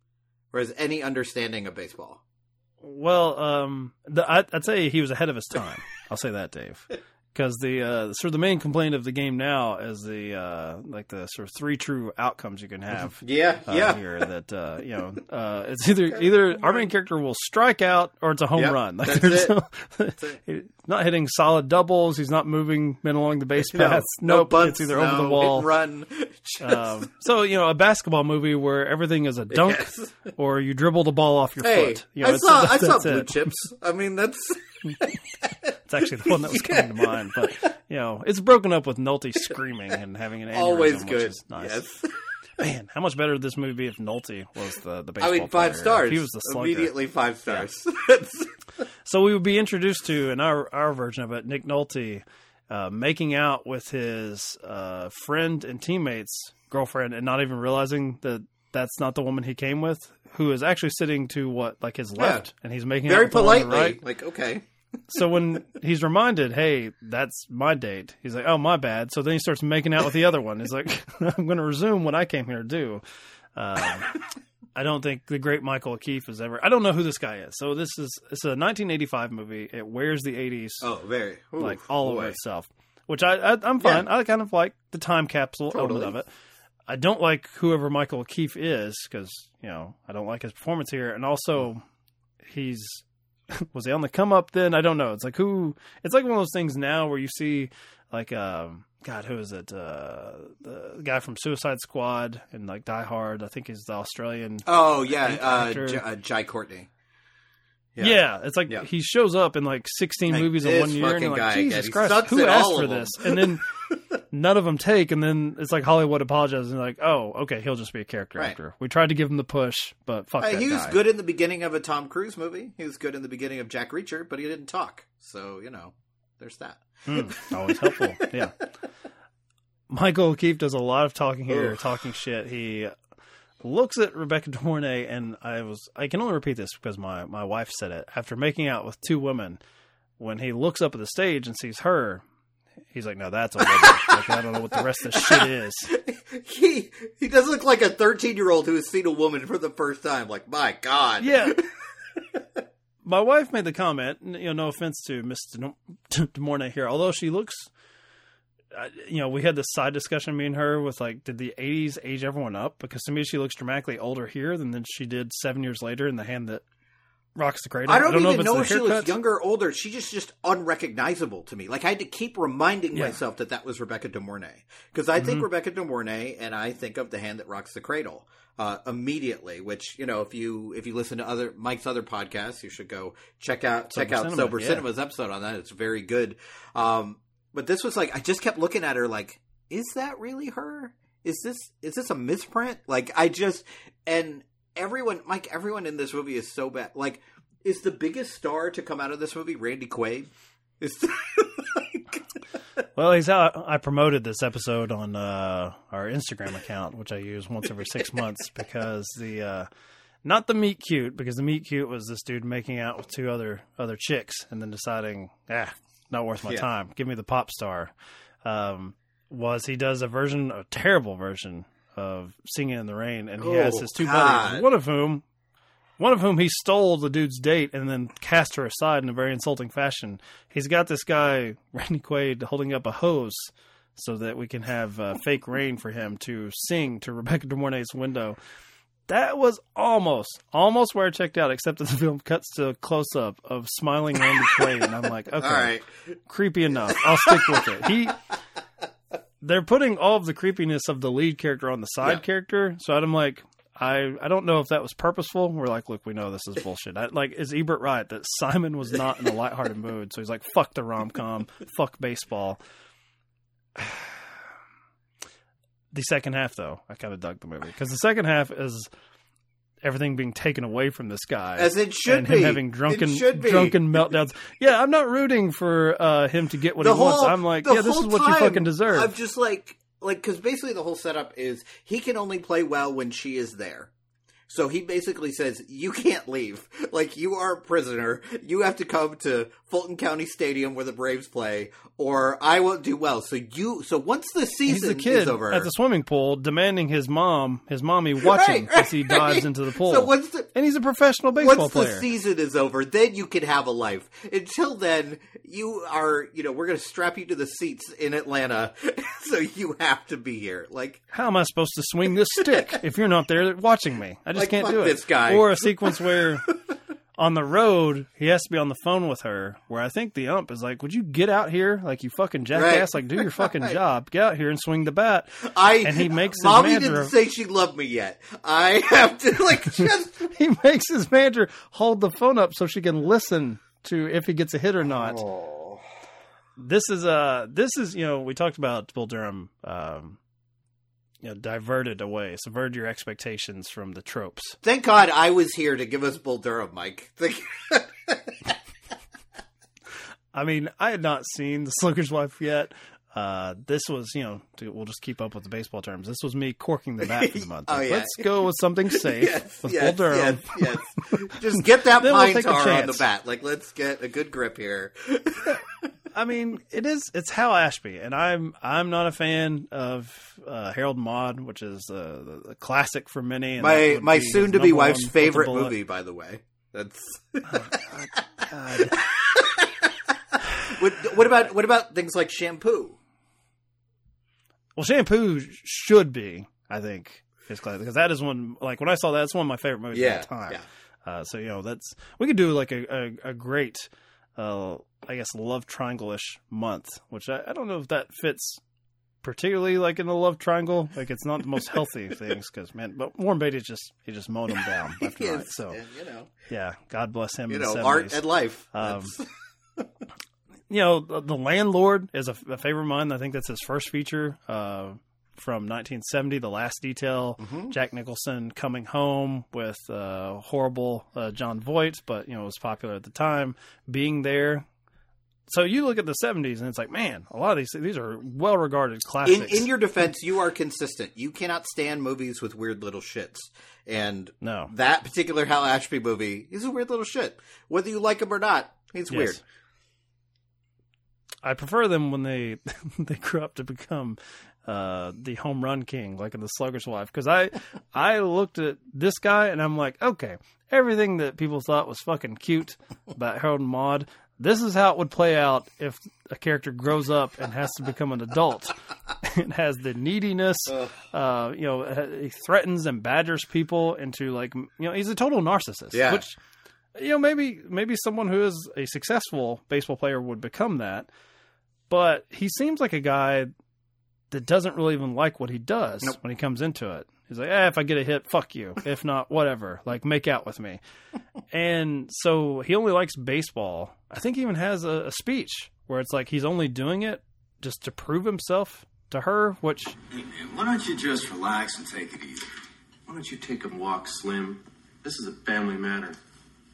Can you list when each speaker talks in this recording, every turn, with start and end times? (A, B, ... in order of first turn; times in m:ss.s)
0:00.5-0:02.2 A
0:02.8-0:25.7 B
0:12.9-0:14.2 A
0:16.1-0:16.9 A
0:18.6-0:19.5 A
0:23.6-0:27.1 A
0:26.6-0:33.6 B
0:29.5-0:30.3 A
0:31.6-0:37.4 A
0:35.9-0:41.8 B
0:40.5-0:42.2 A
0:42.6-0:47.0 B
0:45.2-0:48.5 A
0:49.0-1:04.0 B
1:02.2-1:02.5 A
1:03.0-1:04.6 A
1:05.1-1:13.0 B
1:13.5-1:14.2 B
1:14.7-1:20.9 B
1:20.8-1:22.4 A
1:21.6-1:26.3 B
1:25.7-1:26.2 A
1:26.9-1:31.8 B
1:32.4-1:46.0 B
1:44.6-1:46.9 A
1:48.0-1:48.8 A
1:48.0-1:53.6 B
1:50.3-1:54.0 A
1:54.3-2:01.0 B
2:00.4-2:08.6 A
2:07.1-2:08.5 B
2:09.9-2:12.9 B
2:11.5-2:11.8 A
2:13.6-2:19.6 B
2:20.2-2:22.2 B
2:22.9-2:25.9 B
2:23.6-2:31.7 A
2:31.2-2:31.6 B
2:33.0-2:37.7 B
2:38.7-2:46.6 B
2:47.4-2:49.1 B
2:47.8-3:22.2 A
2:52.9-2:53.2 B
2:55.2-2:55.5 B
3:03.9-3:04.8 B
3:22.9-3:29.7 B
3:30.2-3:45.2 B
3:43.4-3:44.6 A
3:46.0-3:58.4 B
3:59.1-4:08.2 B
4:05.4-4:05.9 A
4:06.9-4:07.7 A
4:09.4-4:22.6 B
4:23.8-4:24.4 B
4:25.9-4:28.9 B
4:29.8-4:39.1 B
4:31.6-4:33.9 A
4:36.8-4:43.9 A
4:44.5-4:55.7 A
4:54.7-5:02.0 B
4:58.2-5:00.5 A
5:01.3-5:11.0 A
5:11.1-5:16.5 B
5:12.3-5:12.8 A
5:14.3-5:16.5 A
5:17.2-5:27.1 B
5:22.5-5:23.8 A
5:25.4-5:30.3 A
5:30.3-5:35.2 B
5:35.2-5:35.8 A
5:36.6-5:40.2 B
5:41.2-5:44.6 B
5:44.6-5:48.5 A
5:50.3-6:03.0 B
5:57.0-5:58.3 A
5:58.9-6:05.7 A
6:06.1-6:15.8 B
6:13.6-6:17.8 A
6:17.5-6:19.0 B
6:18.9-6:19.9 A
6:20.6-6:23.0 A
6:24.8-6:38.6 B
6:29.9-6:30.6 A
6:39.2-6:45.8 B
6:44.6-6:46.3 A
6:46.5-6:49.1 B
6:47.5-6:49.9 A
6:50.7-7:04.7 B
6:57.4-6:57.7 A
7:05.5-7:09.7 B
7:09.2-7:19.4 A
7:14.4-7:14.7 B
7:19.1-7:19.4 B
7:21.4-7:46.4 B
7:40.7-7:41.0 A
7:45.9-7:46.2 A
7:46.9-7:51.1 B
7:51.9-7:53.5 B
7:54.3-8:00.8 B
8:01.5-8:10.0 B
8:10.3-8:12.4 C
8:13.1-8:16.2 C